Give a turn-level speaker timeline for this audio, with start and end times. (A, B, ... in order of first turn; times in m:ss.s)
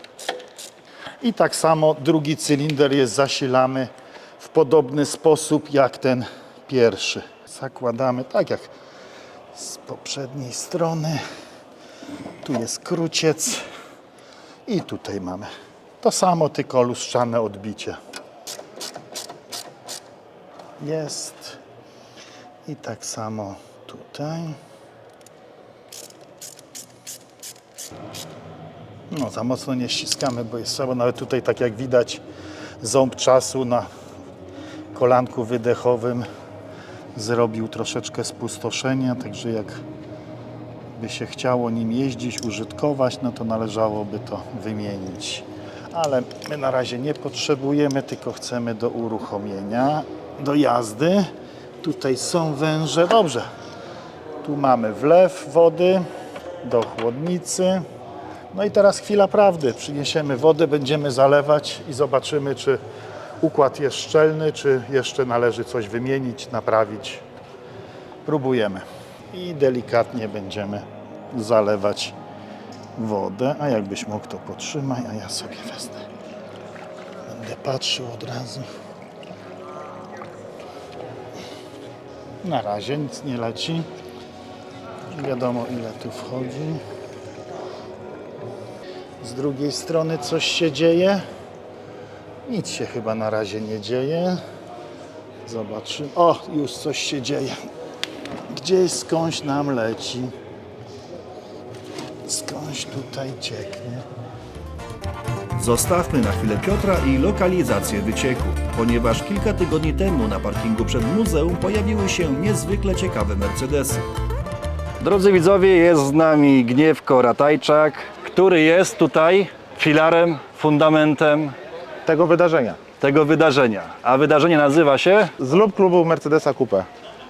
0:01.2-0:08.7 A
0:09.5-0:11.2 A
0:12.4-0:13.6 A
0:14.6-0:15.5 A
0:16.0-0:18.0 A
0:20.8-0:21.6 A
0:22.6-0:24.6 A
0:29.1-0:32.2 A
0:32.8-0:33.9 A
0:34.9-0:36.3 A
0:37.1-0:39.8 A
0:40.9-0:51.3 A
0:51.8-0:53.5 A
0:54.4-0:56.0 A
0:56.6-0:57.8 A
0:58.5-1:02.8 A
1:03.4-1:07.2 A
1:08.2-1:12.2 A
1:13.0-1:16.0 A
1:17.3-1:18.7 A
1:22.4-1:23.9 A
1:25.1-1:26.8 A
1:29.2-1:31.2 A
1:32.4-1:34.4 A
1:35.4-1:37.6 A
1:38.5-1:40.3 A
1:42.2-1:44.0 A
1:45.5-1:54.0 B
1:55.0-2:01.5 C
2:02.0-2:02.8 D
2:03.0-2:05.3 C
2:05.4-2:06.9 D